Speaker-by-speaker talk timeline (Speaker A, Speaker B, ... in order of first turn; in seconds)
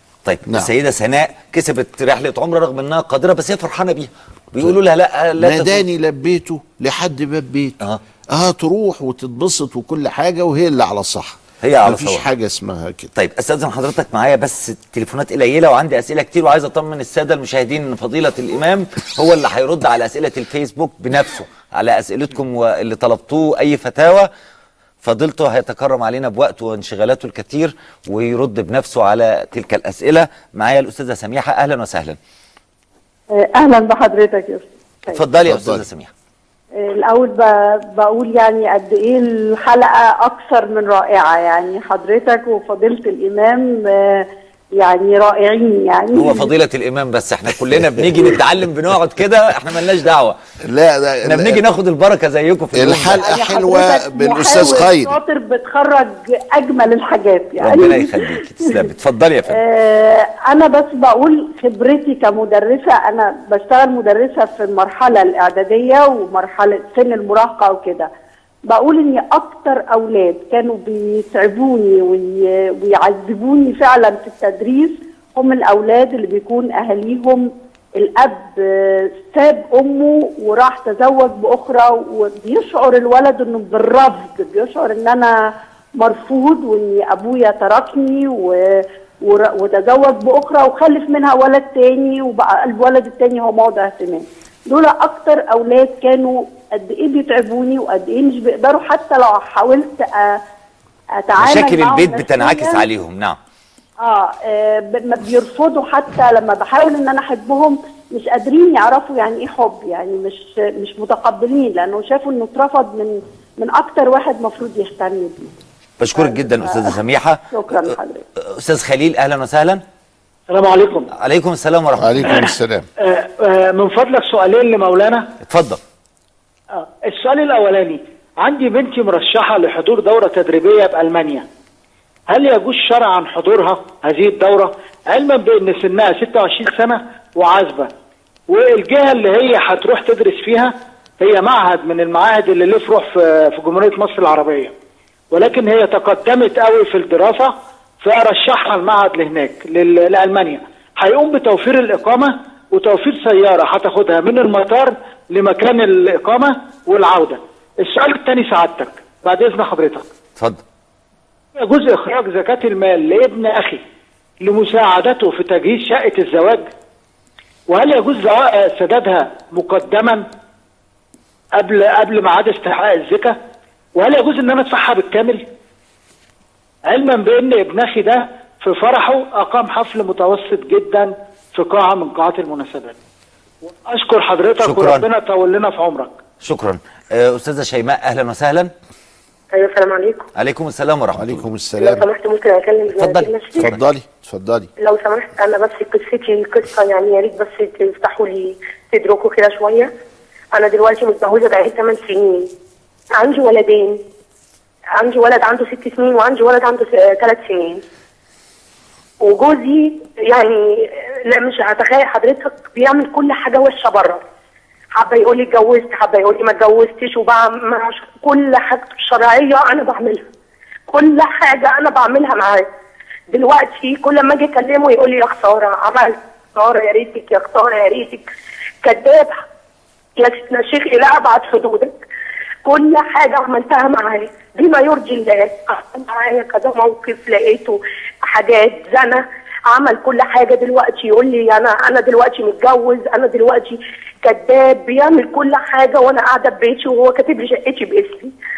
Speaker A: 0.2-5.8, 11.6-12.3, 13.1-24.3, 25.0-32.2, 35.1-36.1, 46.1-50.4, 51.2-53.3, 57.6-59.6, 101.4-103.4, 116.0-117.9, 118.5-119.8, 121.1-122.5, 125.4-125.8, 184.6-185.1, 186.4-188.7, 190.3-191.4, 193.0-193.8
Speaker B: 5.4-7.8, 8.3-13.1, 35.4-35.8, 47.5-48.9, 50.6-51.6, 52.7-55.2, 122.0-122.9, 191.1-192.1, 193.6-194.7
Speaker C: 33.3-34.7, 36.8-46.5, 53.2-58.9, 59.5-68.1, 68.7-85.3, 86.0-100.4, 101.2-102.8, 104.0-115.5, 116.1-117.0, 117.5-118.2
Speaker D: 120.5-121.1, 123.0-125.3, 126.8-131.5, 132.3-137.9, 138.5-144.7, 145.3-160.1, 161.6-163.8, 164.4-166.7, 167.7-170.3, 171.6-173.4, 173.9-175.4, 176.9-183.0, 183.8-186.2
Speaker E: 189.5-190.2, 191.8-193.6, 194.8-199.9, 200.5-202.5, 203.1-204.0, 205.0-207.8, 209.2-214.2, 214.9-220.2, 220.9-222.7, 223.3-228.2, 228.8-229.4, 230.2-232.0, 232.6-248.3